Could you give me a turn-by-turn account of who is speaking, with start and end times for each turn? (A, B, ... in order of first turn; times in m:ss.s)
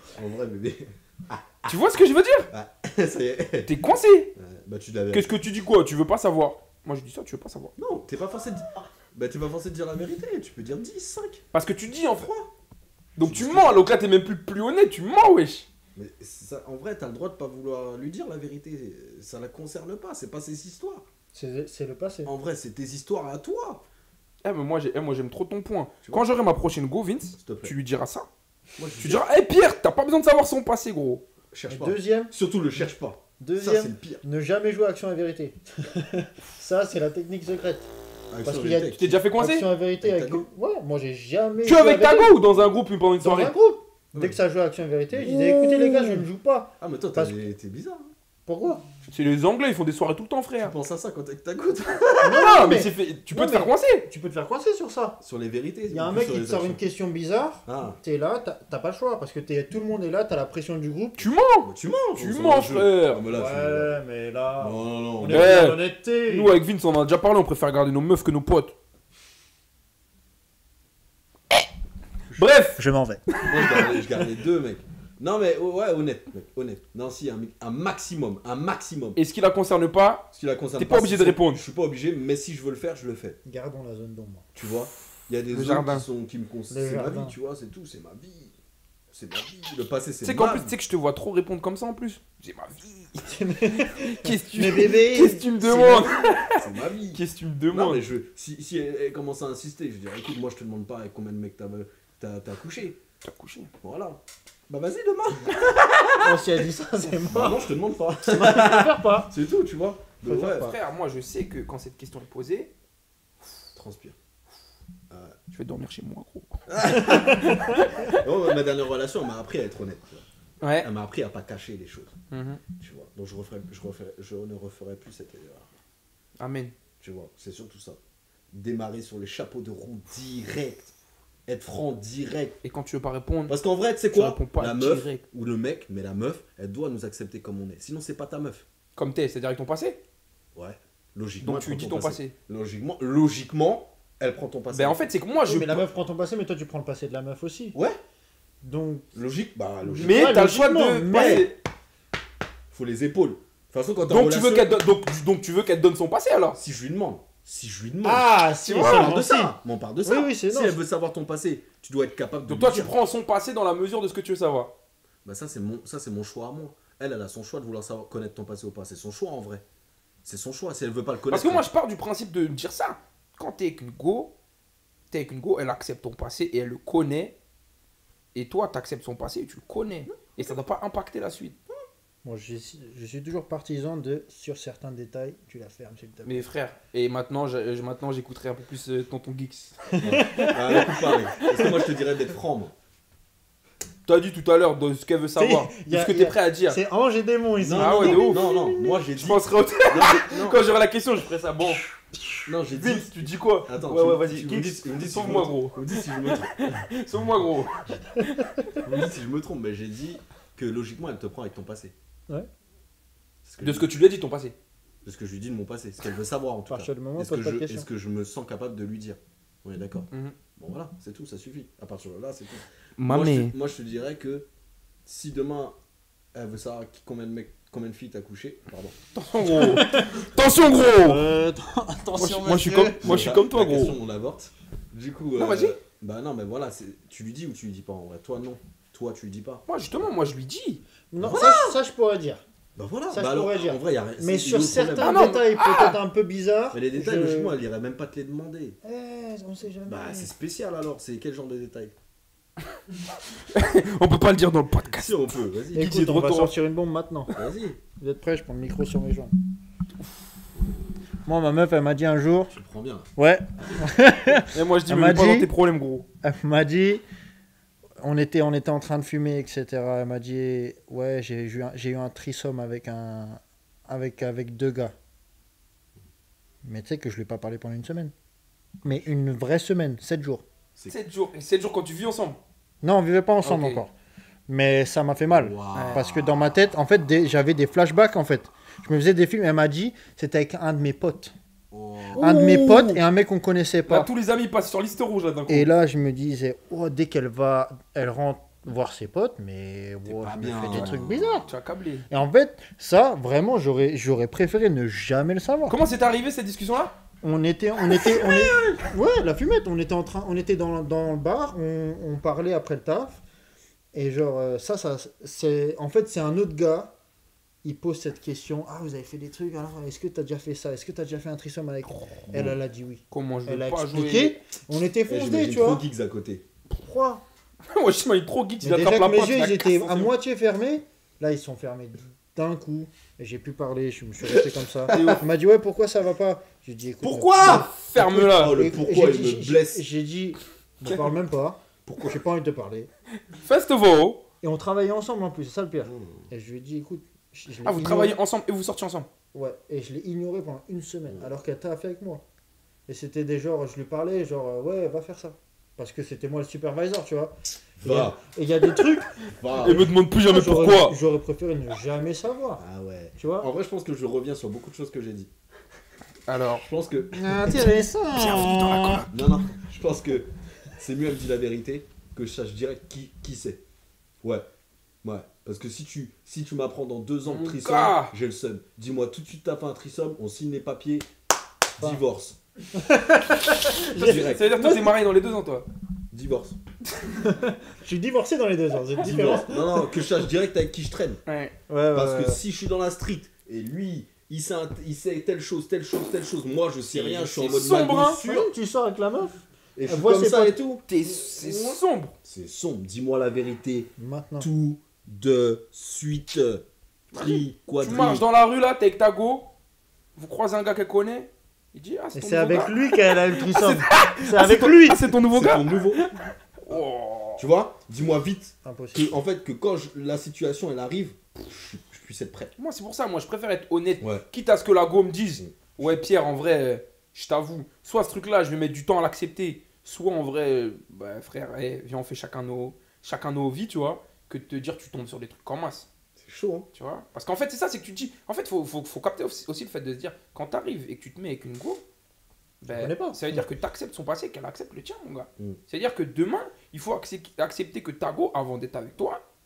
0:00.1-0:01.7 A
0:01.7-0:02.5 B
0:02.5-0:03.7 A
0:03.7-0:04.3 B
0:04.4-0:05.4 A
0:05.1-0:07.7 B
0:07.8-0:11.4 A
0:11.5-0:12.3 B
0:12.2-0:12.5 A
0:13.2-0:15.7 B
0:13.2-0:13.9 A
0:16.0-0:21.1 A
0:21.3-0:22.3 C
0:22.3-0:23.8 A
0:24.4-0:28.3 B
0:26.0-0:26.3 A
0:27.4-0:27.8 A
0:28.8-0:29.3 A
0:29.0-0:31.2 B
0:31.5-0:34.2 A
0:31.7-0:32.3 C
0:33.4-0:37.9 C
0:38.3-0:39.2 A
0:38.4-0:42.4 C
0:39.0-0:39.7 B
0:40.0-0:40.5 A
0:41.6-0:43.5 B
0:43.2-0:47.5 C
0:44.1-0:44.4 A
0:45.1-0:46.2 A
0:46.8-0:48.1 A
0:48.5-0:48.8 C
0:49.1-0:50.8 B
0:50.6-0:52.5 A
0:52.2-0:55.2 C
0:52.4-0:54.1 B
0:55.2-0:56.8 A
0:55.9-1:01.3 C
0:57.7-0:58.0 A
1:01.2-1:03.2 B
1:01.6-1:04.0 A
1:03.3-1:06.6 C
1:04.6-1:05.5 A
1:05.3-1:08.7 B
1:12.4-1:12.8 B
1:12.8-1:13.2 C
1:13.3-1:14.3 B
1:13.4-1:19.2 A
1:19.2-1:21.6 B
1:20.3-1:23.4 A
1:23.5-1:24.5 C
1:24.6-1:28.5 A
1:25.5-1:26.1 B
1:26.7-1:27.4 C
1:29.1-1:30.7 A
1:30.2-1:38.0 B
1:33.2-1:36.2 C
1:36.5-1:43.0 A
1:43.2-1:43.7 B
1:43.8-1:46.4 A
1:46.2-1:47.7 C
1:47.2-1:50.7 A
1:48.3-1:49.3 C
1:50.2-1:50.8 C
1:50.4-1:52.7 B
1:53.8-1:54.2 A
1:55.1-1:55.4 A
1:55.5-1:58.2 B
1:56.7-2:00.2 A
1:56.9-1:57.8 C
2:00.6-2:00.9 B
2:00.8-2:02.2 A
2:02.3-2:02.6 B
2:02.8-2:05.7 A
2:06.4-2:06.7 B
2:07.0-2:08.0 A
2:08.5-2:10.9 A
2:11.5-2:12.6 A
2:12.6-2:13.6 B
2:13.5-2:18.7 A
2:14.1-2:15.2 B
2:19.0-2:20.0 B
2:20.6-2:25.1 A
2:21.4-2:22.4 B
2:24.7-2:25.8 B
2:25.5-2:27.8 C
2:28.6-2:29.1 C
2:29.1-2:30.4 A
2:29.8-2:31.5 C
2:30.0-2:31.6 B
2:31.1-2:31.5 A
2:32.7-2:34.8 A
2:34.1-2:36.6 B
2:36.6-2:43.0 A
2:38.0-2:40.8 C
2:38.7-2:39.1 B
2:42.5-2:44.7 B
2:45.2-2:49.6 A
2:50.2-2:51.7 A
2:51.3-2:54.4 B
2:55.1-2:57.4 B
2:58.4-3:01.6 B
3:00.1-3:00.4 A
3:02.2-3:06.5 C
3:06.3-3:11.8 B
3:09.9-3:11.1 C
3:10.0-3:12.7 A
3:14.1-3:16.8 B
3:15.4-3:19.0 C
3:17.6-3:20.7 A
3:17.8-3:18.4 B
3:19.2-3:21.9 B
3:21.7-3:22.5 C
3:22.5-3:26.7 A
3:22.7-3:28.5 B
3:28.1-3:28.8 C
3:28.8-3:31.9 A
3:33.4-3:34.0 A
3:33.6-3:34.6 B
3:35.0-3:44.5 A
3:36.7-3:37.9 C
3:43.0-3:43.6 B
3:45.0-3:45.8 A
3:46.4-3:49.0 A
3:49.2-3:51.2 B
3:49.4-3:50.2 C
3:51.0-3:53.3 C
3:52.2-3:54.0 B
3:53.0-3:59.6 A
3:55.4-3:55.7 B
3:59.7-4:00.8 B
4:01.1-4:02.4 C
4:01.2-4:01.7 A
4:01.3-4:01.6 B
4:02.8-4:05.4 A
4:03.1-4:07.6 C
4:05.0-4:06.0 B
4:06.7-4:08.8 A
4:08.8-4:10.3 C
4:09.9-4:12.0 A
4:13.5-4:15.2 B
4:14.9-4:15.9 A
4:15.8-4:16.5 B
4:15.8-4:17.3 C
4:17.4-4:17.8 A
4:18.0-4:19.3 C
4:21.3-4:22.6 C
4:22.5-4:23.1 A
4:23.2-4:25.5 C
4:24.5-4:26.1 B
4:26.2-4:27.0 C
4:28.0-4:34.9 C
4:36.6-4:38.1 C
4:38.8-4:40.4 C
4:40.9-4:42.4 B
4:42.8-4:43.9 C
4:43.4-4:43.8 B
4:44.5-4:51.3 C
4:45.3-4:46.5 A
4:45.7-4:46.0 B
4:51.7-4:52.3 A
4:52.1-4:53.0 B
4:52.2-4:54.1 C
4:53.9-4:55.7 B
4:55.5-5:01.5 C
5:00.0-5:01.6 A
5:01.5-5:02.0 B
5:02.1-5:05.8 C
5:05.7-5:07.0 B
5:07.2-5:13.2 C
5:07.9-5:08.9 A
5:13.9-5:16.9 C
5:17.6-5:25.8 C
5:22.3-5:22.6 A
5:23.1-5:24.4 B
5:25.1-5:26.4 A
5:26.8-5:27.2 C
5:27.7-5:30.1 B
5:28.6-5:42.9 C
5:34.3-5:35.2 A
5:34.9-5:35.2 B
5:37.0-5:39.8 A
5:37.4-5:38.6 B
5:41.8-5:42.1 A
5:43.3-5:44.2 B
5:44.4-5:48.2 C
5:45.9-5:46.2 A
5:47.6-5:49.1 B
5:49.3-5:52.2 C
5:52.9-5:59.1 C
5:57.8-5:58.2 A
5:59.2-5:59.9 A
5:59.6-6:00.9 B
5:59.6-6:02.6 C
6:02.6-6:05.3 A
6:03.2-6:03.5 C
6:06.3-6:06.6 B
6:06.6-6:07.7 A
6:07.2-6:09.1 C
6:07.4-6:09.2 B
6:09.1-6:13.6 A
6:15.0-6:21.1 A
6:17.3-6:18.1 B
6:21.8-6:22.4 A
6:22.8-6:24.9 C
6:23.8-6:25.6 B
6:23.9-6:24.6 A
6:26.1-6:26.6 A
6:27.2-6:29.9 C
6:29.0-6:31.2 A
6:31.3-6:31.6 B
6:31.7-6:32.4 C
6:31.9-6:38.5 A
6:36.9-6:38.2 B
6:38.2-6:40.6 C
6:39.8-6:48.2 A
6:40.9-6:42.1 B
6:44.0-6:44.5 C
6:47.1-6:49.5 B
6:50.2-6:57.5 B
6:52.2-6:55.1 C
6:55.3-6:56.0 A
6:57.4-7:02.5 A
6:58.6-6:59.1 C
7:02.6-7:15.9 B
7:04.0-7:04.2 A
7:05.4-7:05.9 A
7:16.2-7:16.7 A
7:16.8-7:21.8 B
7:22.6-7:29.2 B
7:22.7-7:23.5 C